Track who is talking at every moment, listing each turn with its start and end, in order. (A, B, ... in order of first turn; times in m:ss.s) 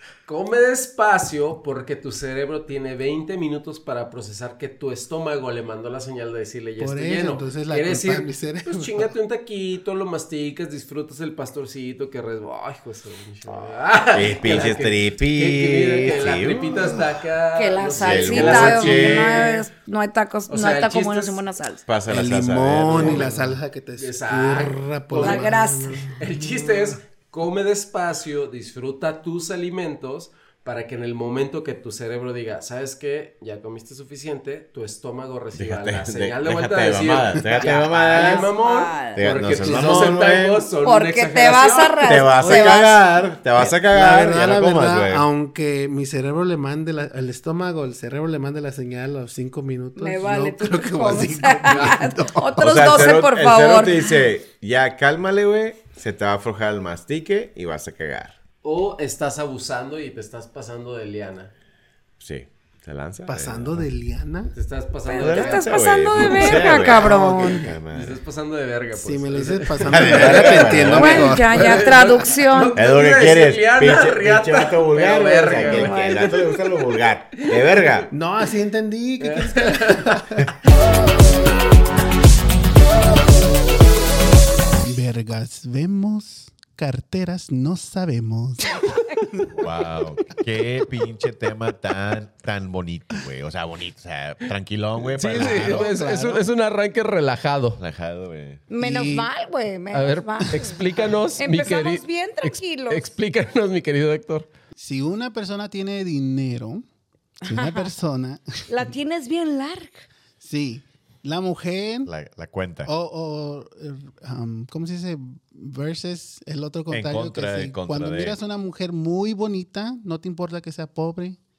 0:00.3-0:19.6 A
0:06.8-0:09.1 B
0:14.1-0:16.9 C
0:16.7-0:17.0 B
0:17.6-0:21.8 D
0:18.0-0:19.5 C
0:20.5-0:21.4 A
0:21.9-0:23.4 C
0:22.1-0:26.7 B
0:22.9-0:23.4 A
0:24.0-0:42.8 A
0:25.1-0:26.0 D
0:35.6-0:38.5 C
0:37.4-0:37.7 B
0:38.1-0:39.2 D
0:39.2-0:40.6 C
0:39.7-0:40.1 B
0:40.8-0:43.0 D
0:42.0-0:45.3 C
0:43.6-0:52.6 B
0:50.0-0:54.3 D
0:51.7-0:52.0 A
0:52.6-0:58.4 C
0:58.6-1:01.5 A
1:02.2-1:03.8 C
1:03.3-1:04.5 B
1:04.6-1:06.8 A
1:05.1-1:07.7 D
1:05.2-1:08.2 C
1:06.4-1:07.7 B
1:07.9-1:17.8 A
1:09.0-1:11.9 B
1:09.9-1:11.3 C
1:10.9-1:12.8 D
1:12.7-1:18.1 C
1:15.6-1:16.4 D
1:18.1-1:20.4 B
1:19.2-1:20.3 A
1:24.8-1:29.7 B
1:29.6-1:35.9 C
1:35.1-1:37.8 A
1:35.2-1:36.4 B
1:37.8-1:38.6 C
1:38.7-1:40.8 D
1:38.8-1:39.3 B
1:39.9-1:44.5 A
1:41.4-1:43.1 D
1:44.8-1:46.8 B
1:47.4-1:47.9 D
1:47.4-1:48.4 B
1:48.7-1:50.1 D
1:50.4-1:52.1 B
1:52.0-1:52.9 C
1:52.9-2:01.4 B
1:56.9-1:58.4 C